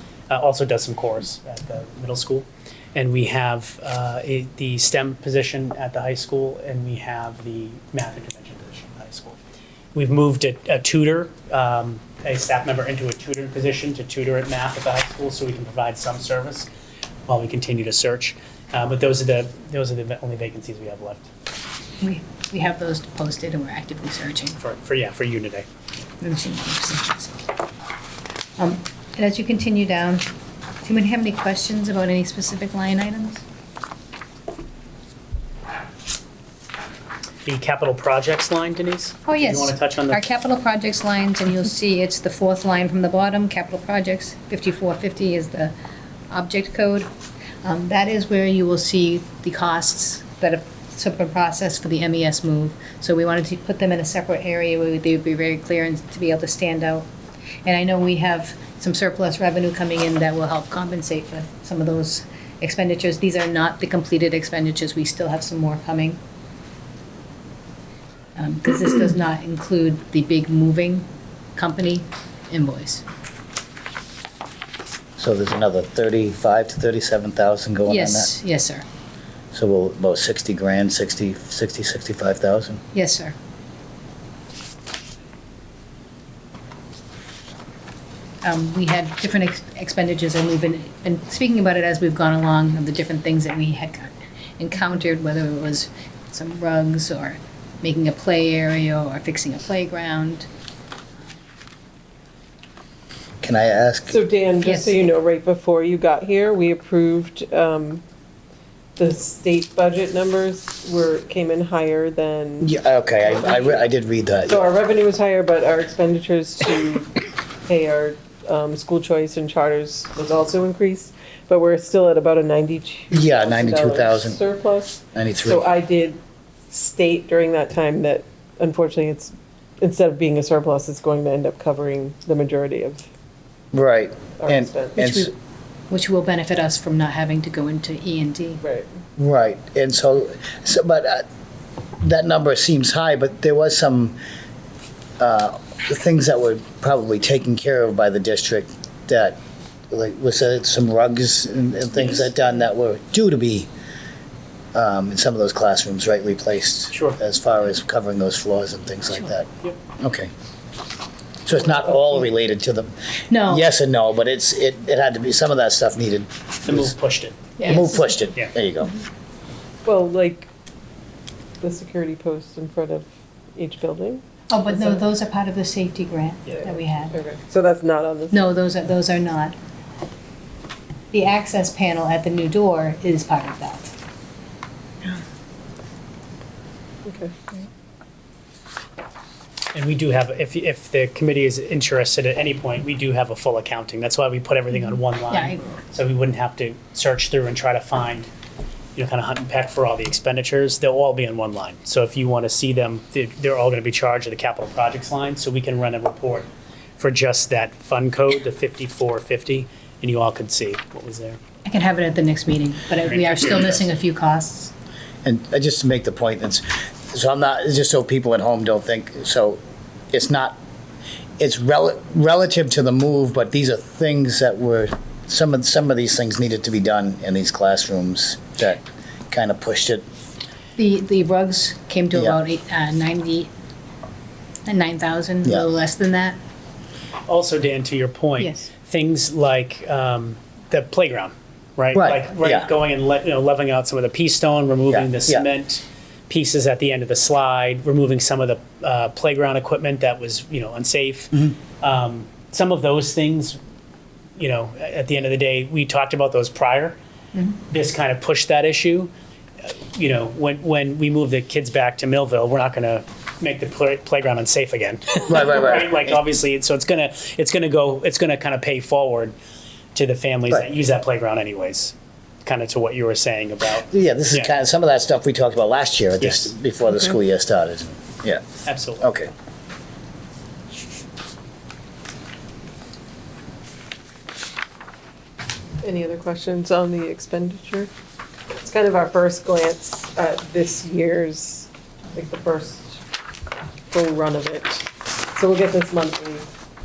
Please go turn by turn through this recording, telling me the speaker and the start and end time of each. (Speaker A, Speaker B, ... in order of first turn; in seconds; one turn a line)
Speaker A: 0.3-9.4
Speaker A: 9.9-16.7
Speaker A: 17.3-21.3
Speaker B: 22.0-24.6
Speaker A: 24.6-25.7
Speaker B: 26.2-27.5
Speaker B: 28.6-30.2
Speaker B: 30.8-33.4
Speaker A: 37.5-40.2
Speaker B: 39.3-45.7
Speaker B: 46.3-47.1
Speaker B: 47.6-57.1
Speaker B: 57.6-66.2
Speaker B: 68.4-73.0
Speaker C: 75.2-78.3
Speaker B: 77.9-78.8
Speaker C: 79.5-82.8
Speaker B: 82.9-83.4
Speaker B: 88.4-100.5
Speaker C: 103.4-104.2
Speaker D: 104.1-108.0
Speaker B: 104.6-104.9
Speaker D: 109.0-113.8
Speaker C: 112.6-114.7
Speaker D: 114.5-126.2
Speaker C: 123.1-124.4
Speaker C: 125.2-125.7
Speaker D: 126.7-133.1
Speaker C: 133.7-135.3
Speaker D: 134.4-135.0
Speaker B: 135.0-135.3
Speaker B: 135.9-138.6
Speaker D: 138.6-138.9
Speaker C: 139.2-141.2
Speaker C: 142.0-144.2
Speaker C: 145.2-149.4
Speaker C: 149.9-153.7
Speaker C: 154.7-160.3
Speaker A: 156.9-157.2
Speaker C: 161.5-166.9
Speaker B: 163.3-163.7
Speaker A: 166.7-167.7
Speaker B: 167.6-168.1
Speaker C: 167.6-168.9
Speaker D: 169.8-170.5
Speaker D: 171.6-175.0
Speaker B: 174.5-177.2
Speaker D: 176.5-178.6
Speaker B: 178.3-179.6
Speaker B: 181.1-183.9
Speaker D: 187.1-187.4
Speaker A: 189.7-198.3
Speaker B: 195.3-195.8
Speaker A: 199.0-211.4
Speaker B: 211.7-214.7
Speaker A: 213.1-213.8
Speaker C: 215.2-219.6
Speaker C: 220.1-220.6
Speaker C: 221.4-230.1
Speaker B: 230.8-233.5
Speaker B: 234.7-236.4
Speaker A: 237.3-253.6
Speaker B: 238.4-238.7
Speaker C: 241.9-242.7
Speaker C: 244.9-245.5
Speaker A: 254.4-257.0
Speaker A: 257.7-259.1
Speaker A: 259.9-269.4
Speaker C: 265.3-266.2
Speaker A: 269.9-271.9
Speaker A: 272.4-274.5
Speaker C: 273.9-278.4
Speaker A: 276.2-276.5
Speaker A: 278.6-279.1
Speaker C: 279.0-279.3
Speaker D: 285.8-287.9
Speaker D: 288.5-293.0
Speaker D: 293.9-296.5